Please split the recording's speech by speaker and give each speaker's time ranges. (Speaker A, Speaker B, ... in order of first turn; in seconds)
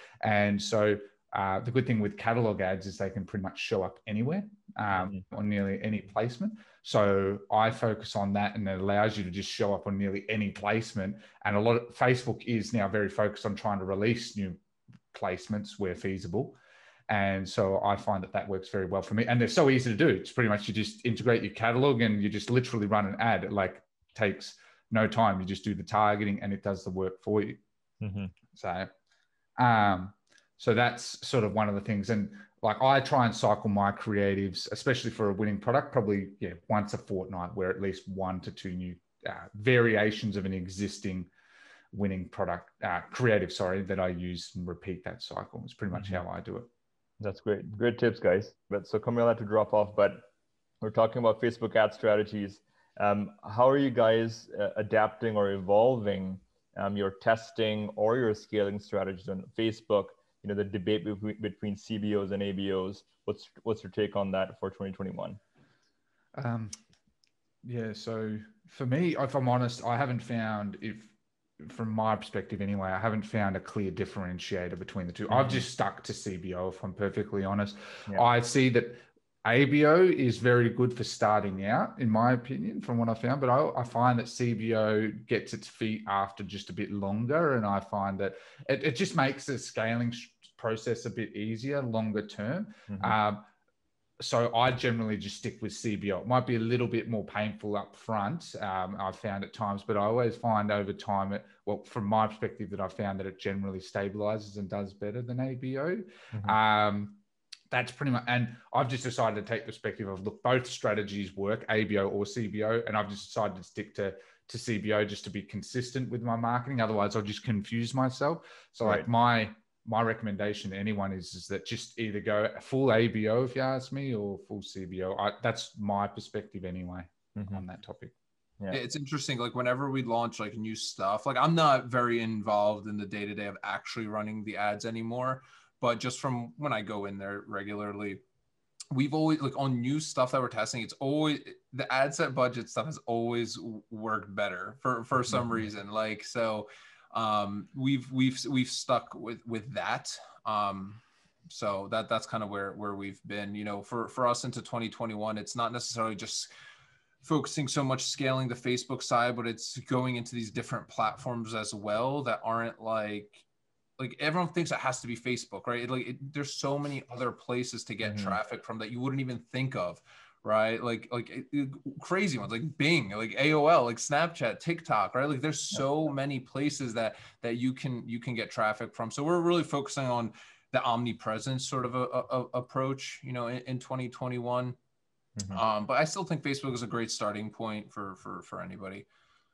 Speaker A: 0.2-14.6, 15.1-16.6, 17.1-27.6, 28.5-28.9, 29.6-41.3, 41.9-46.7, 66.3-66.8, 67.6-93.5, 94.2-107.2, 107.7-128.1
Speaker B: 4.9-5.2, 28.0-28.3, 45.9-46.2, 47.2-50.3, 50.8-65.4, 75.3-75.6, 92.9-93.2, 106.3-106.6, 127.3-127.6, 168.0-168.4, 185.4-185.6
Speaker C: 128.7-138.2, 138.9-156.5, 157.2-163.4, 164.0-184.8, 185.5-189.0